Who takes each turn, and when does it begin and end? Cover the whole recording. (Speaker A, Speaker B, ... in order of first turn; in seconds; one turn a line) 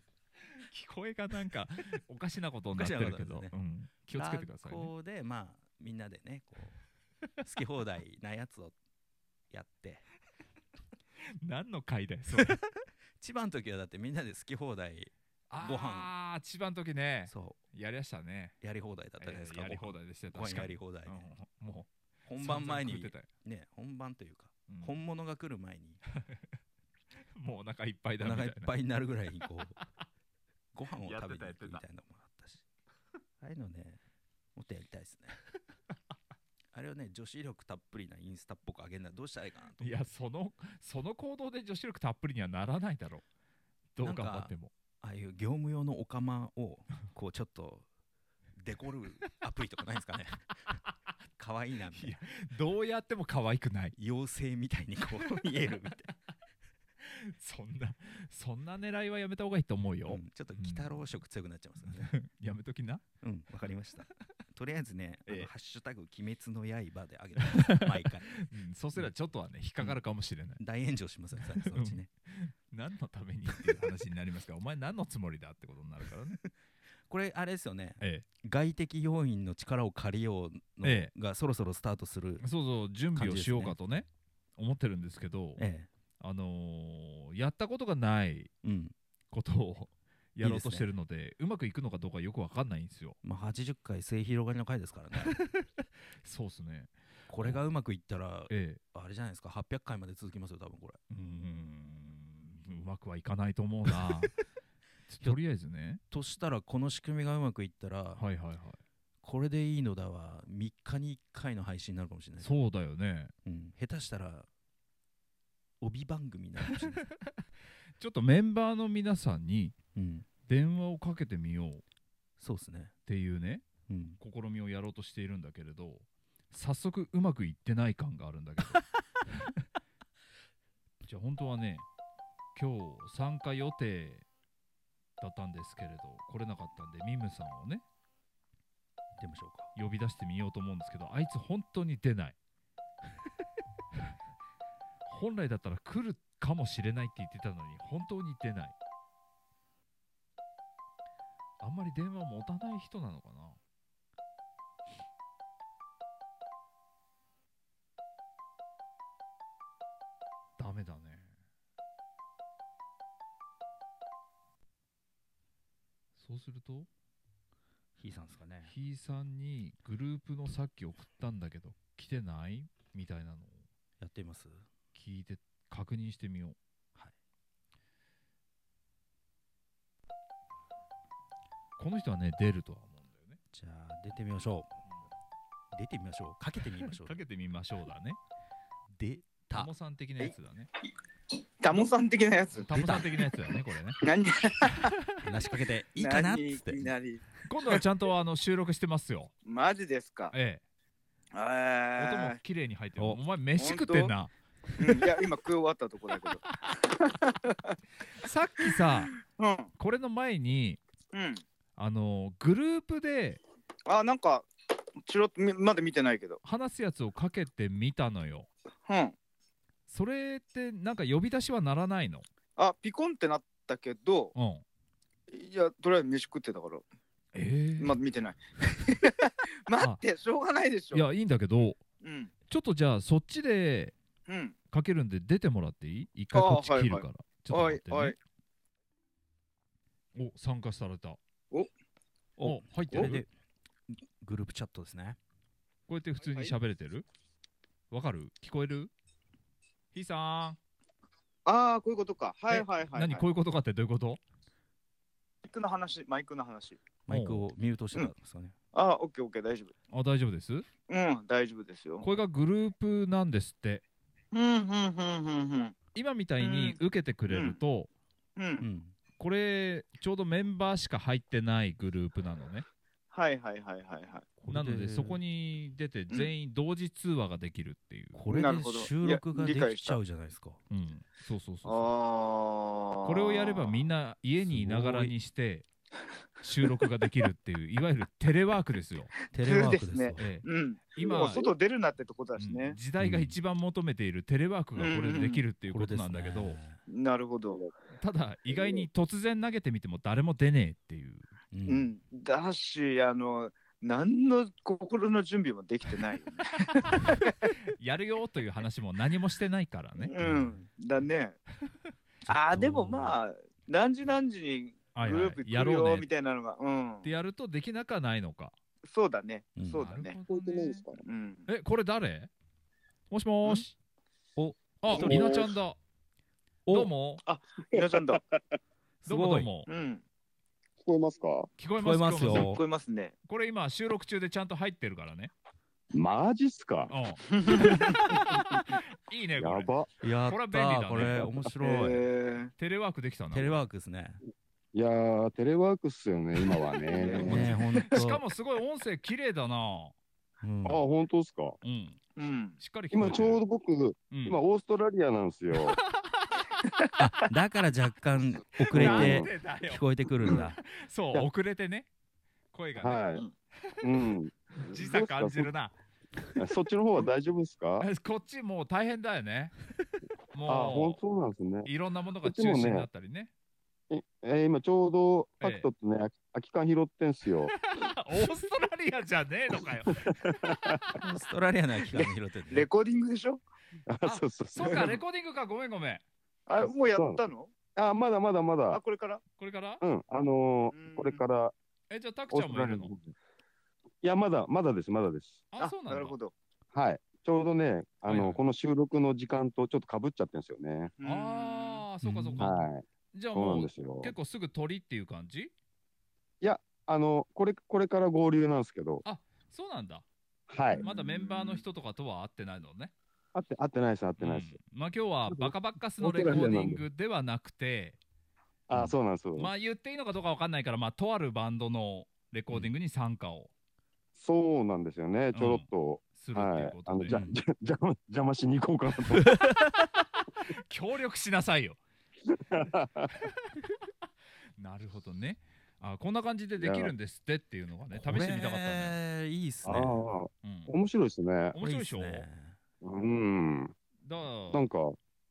Speaker A: 0.6-4.9
Speaker B: 2.7-3.5
Speaker B: 4.1-6.8
Speaker B: 7.4-8.8
Speaker B: 9.5-10.1
Speaker A: 11.4-12.6
Speaker B: 13.2-16.1
Speaker A: 15.5-18.6
Speaker B: 17.3-17.6
Speaker B: 18.6-21.3
Speaker A: 19.2-23.3
Speaker B: 22.3-26.0
Speaker A: 24.7-24.9
Speaker A: 27.4-28.7
Speaker B: 28.2-29.8
Speaker B: 30.7-32.6
Speaker A: 31.0-31.8
Speaker B: 33.4-34.0
Speaker B: 34.5-35.4
Speaker B: 36.7-40.0
Speaker A: 39.8-43.2
Speaker A: 44.0-44.7
Speaker B: 44.0-47.9
Speaker B: 48.6-50.5
Speaker B: 51.4-52.2
Speaker A: 52.0-54.0
Speaker B: 54.0-56.1
Speaker A: 57.0-61.1
Speaker B: 60.0-62.1
Speaker A: 61.8-63.0
Speaker B: 63.2-68.4
Speaker A: 67.4-70.6
Speaker B: 70.6-72.1
Speaker A: 71.4-76.4
Speaker B: 77.1-82.5
Speaker A: 78.0-78.3
Speaker A: 80.8-81.1
Speaker A: 82.4-85.6
Speaker B: 83.1-83.8
Speaker B: 85.6-85.9
Speaker A: 86.2-88.5
Speaker B: 88.6-89.0
Speaker A: 89.3-93.2
Speaker B: 90.4-90.9
Speaker B: 93.2-95.4
Speaker A: 95.3-95.7
Speaker A: 96.2-97.6
Speaker B: 97.3-101.0
Speaker A: 98.5-98.8
Speaker A: 101.1-104.4
Speaker A: 105.1-106.0
Speaker B: 106.1-108.2
Speaker A: 108.2-108.8
Speaker B: 109.2-112.6
Speaker A: 112.4-113.3
Speaker B: 113.5-114.5
Speaker B: 115.8-117.0
Speaker A: 118.0-119.8
Speaker B: 120.0-120.3
Speaker A: 120.5-121.8
Speaker B: 122.4-122.9
Speaker A: 123.1-123.7
Speaker B: 123.9-124.2
Speaker A: 124.2-129.5
Speaker A: 131.1-131.9
Speaker A: 132.6-134.3
Speaker A: 135.2-137.8
Speaker B: 139.2-139.7
Speaker A: 139.8-142.4
Speaker A: 145.1-148.8
Speaker A: 151.6-153.6
Speaker A: 160.6-161.3
Speaker A: 166.2-166.9
Speaker B: 168.0-168.7
Speaker A: 168.7-173.7
Speaker B: 174.0-174.6
Speaker A: 174.9-176.6
Speaker A: 181.8-183.4
Speaker B: 183.5-184.7
Speaker B: 185.7-187.2
Speaker A: 186.9-188.2
Speaker B: 189.0-189.7
Speaker A: 189.5-190.7
Speaker C: 191.6-192.7
Speaker A: 192.6-194.0
Speaker B: 192.7-193.1
Speaker C: 194.0-195.0
Speaker B: 195.2-196.9
Speaker C: 196.0-197.4
Speaker A: 197.5-199.3
Speaker C: 199.4-200.3
Speaker A: 200.3-200.6
Speaker C: 201.3-202.4
Speaker A: 202.0-204.3
Speaker C: 203.6-204.1
Speaker C: 204.8-207.8
Speaker A: 208.1-209.1
Speaker C: 208.6-209.7
Speaker A: 209.8-210.8
Speaker C: 211.1-211.4
Speaker A: 211.8-213.4
Speaker C: 213.9-214.5
Speaker C: 215.0-216.4
Speaker A: 216.4-218.5
Speaker C: 218.9-219.1
Speaker A: 219.9-222.3
Speaker C: 222.6-224.3
Speaker A: 224.3-224.6
Speaker C: 225.3-226.8
Speaker A: 227.3-227.9
Speaker C: 227.8-231.1
Speaker A: 230.9-231.8
Speaker C: 232.0-232.3
Speaker A: 232.5-233.9
Speaker C: 234.3-234.6
Speaker A: 234.7-238.2
Speaker C: 236.3-238.2
Speaker A: 240.1-241.2
Speaker B: 242.4-243.3
Speaker A: 242.4-243.2
Speaker B: 243.9-245.2
Speaker A: 245.9-247.1
Speaker C: 246.3-246.5
Speaker A: 247.9-248.9
Speaker A: 249.9-250.6
Speaker C: 251.5-253.3
Speaker A: 252.5-254.2
Speaker C: 255.4-256.8
Speaker B: 257.1-258.6
Speaker A: 257.1-257.4
Speaker C: 258.7-259.7
Speaker A: 259.9-260.7
Speaker C: 260.9-262.1
Speaker A: 262.0-263.8
Speaker C: 264.3-265.7
Speaker A: 265.9-267.9
Speaker C: 266.4-266.8
Speaker C: 267.3-267.6
Speaker C: 268.4-268.6
Speaker B: 268.6-268.9
Speaker A: 269.2-272.7
Speaker C: 273.1-274.3
Speaker B: 274.4-275.2
Speaker A: 274.5-278.2
Speaker B: 278.1-280.6
Speaker C: 278.3-280.0
Speaker A: 280.7-281.9
Speaker C: 281.6-283.8
Speaker A: 283.0-285.7
Speaker B: 284.4-285.1
Speaker A: 286.4-289.1
Speaker B: 289.3-290.3
Speaker C: 289.4-292.8
Speaker A: 290.2-291.5
Speaker A: 292.4-296.6
Speaker B: 293.0-293.4
Speaker C: 294.8-295.4
Speaker B: 295.7-296.8
Speaker C: 296.9-297.7
Speaker A: 298.0-301.3
Speaker B: 301.5-301.9
Speaker C: 301.7-307.5
Speaker A: 307.7-310.1
Speaker C: 310.0-311.4
Speaker B: 310.2-310.6
Speaker B: 312.3-313.2
Speaker C: 312.3-317.1
Speaker A: 314.9-316.1
Speaker A: 317.0-318.6
Speaker C: 318.8-320.2
Speaker B: 319.6-319.9
Speaker A: 319.8-320.9
Speaker D: 320.3-321.0
Speaker C: 321.0-321.5
Speaker A: 321.5-322.3
Speaker A: 323.1-323.7
Speaker B: 324.4-325.5
Speaker A: 324.8-325.8
Speaker D: 324.9-325.5
Speaker B: 326.7-326.9
Speaker A: 326.7-327.2
Speaker C: 327.2-328.2
Speaker D: 327.7-328.4
Speaker B: 329.1-329.5
Speaker A: 329.1-329.7
Speaker C: 329.7-330.0
Speaker D: 330.8-331.5
Speaker A: 331.6-332.6
Speaker B: 331.8-332.6
Speaker C: 332.2-333.1
Speaker A: 333.3-335.3
Speaker D: 335.9-336.9
Speaker A: 336.9-339.7
Speaker C: 337.3-338.0
Speaker D: 339.4-339.9
Speaker B: 340.0-342.0
Speaker A: 340.2-341.4
Speaker C: 341.6-342.5
Speaker A: 342.6-343.7
Speaker B: 343.3-344.2
Speaker D: 344.7-347.6
Speaker C: 346.9-347.6
Speaker A: 347.2-349.9
Speaker B: 347.2-348.2
Speaker B: 350.4-350.8
Speaker D: 350.6-351.6
Speaker A: 351.6-352.0
Speaker C: 352.2-352.6
Speaker A: 352.6-353.4
Speaker D: 352.9-355.8
Speaker A: 354.1-354.4
Speaker A: 355.5-356.4
Speaker B: 357.0-360.6
Speaker A: 358.7-361.9
Speaker D: 358.7-359.3
Speaker A: 362.5-363.1
Speaker D: 362.8-363.2
Speaker D: 363.8-365.5
Speaker A: 364.7-365.7
Speaker D: 366.4-367.9
Speaker A: 367.8-369.5
Speaker A: 370.3-371.0
Speaker D: 370.5-371.7
Speaker A: 371.6-373.3
Speaker D: 372.2-372.9
Speaker D: 373.9-377.5
Speaker A: 375.4-375.7
Speaker A: 377.6-381.0
Speaker D: 380.1-380.9
Speaker B: 381.0-382.7
Speaker C: 382.5-383.4
Speaker D: 383.9-385.0
Speaker A: 384.0-386.0
Speaker C: 386.5-387.5
Speaker D: 386.6-387.2
Speaker D: 387.8-388.8
Speaker C: 388.7-389.2
Speaker A: 389.4-389.8
Speaker D: 389.8-391.5
Speaker C: 390.7-391.2
Speaker A: 391.9-392.9
Speaker D: 392.3-393.1
Speaker D: 394.0-395.4
Speaker A: 395.5-396.2
Speaker C: 395.6-396.3
Speaker D: 396.7-400.9
Speaker A: 398.1-398.4
Speaker C: 401.0-401.8
Speaker A: 401.0-405.5
Speaker B: 402.0-402.5
Speaker D: 402.4-404.1
Speaker D: 406.4-409.0
Speaker A: 409.0-410.1
Speaker D: 410.5-410.9
Speaker C: 410.7-411.6
Speaker A: 410.8-412.9
Speaker D: 413.3-414.6
Speaker A: 414.2-418.0
Speaker D: 415.3-416.8
Speaker D: 418.7-419.5
Speaker A: 419.4-423.5
Speaker D: 424.2-429.3
Speaker A: 425.3-427.2
Speaker B: 427.1-427.4
Speaker A: 430.5-431.8
Speaker D: 432.3-433.1
Speaker A: 434.6-439.0
Speaker D: 436.6-436.9
Speaker B: 437.9-440.0
Speaker D: 439.6-441.6
Speaker A: 440.4-440.7
Speaker A: 441.5-442.3
Speaker B: 441.6-442.6
Speaker D: 442.8-443.7
Speaker A: 444.0-444.6
Speaker D: 444.5-445.0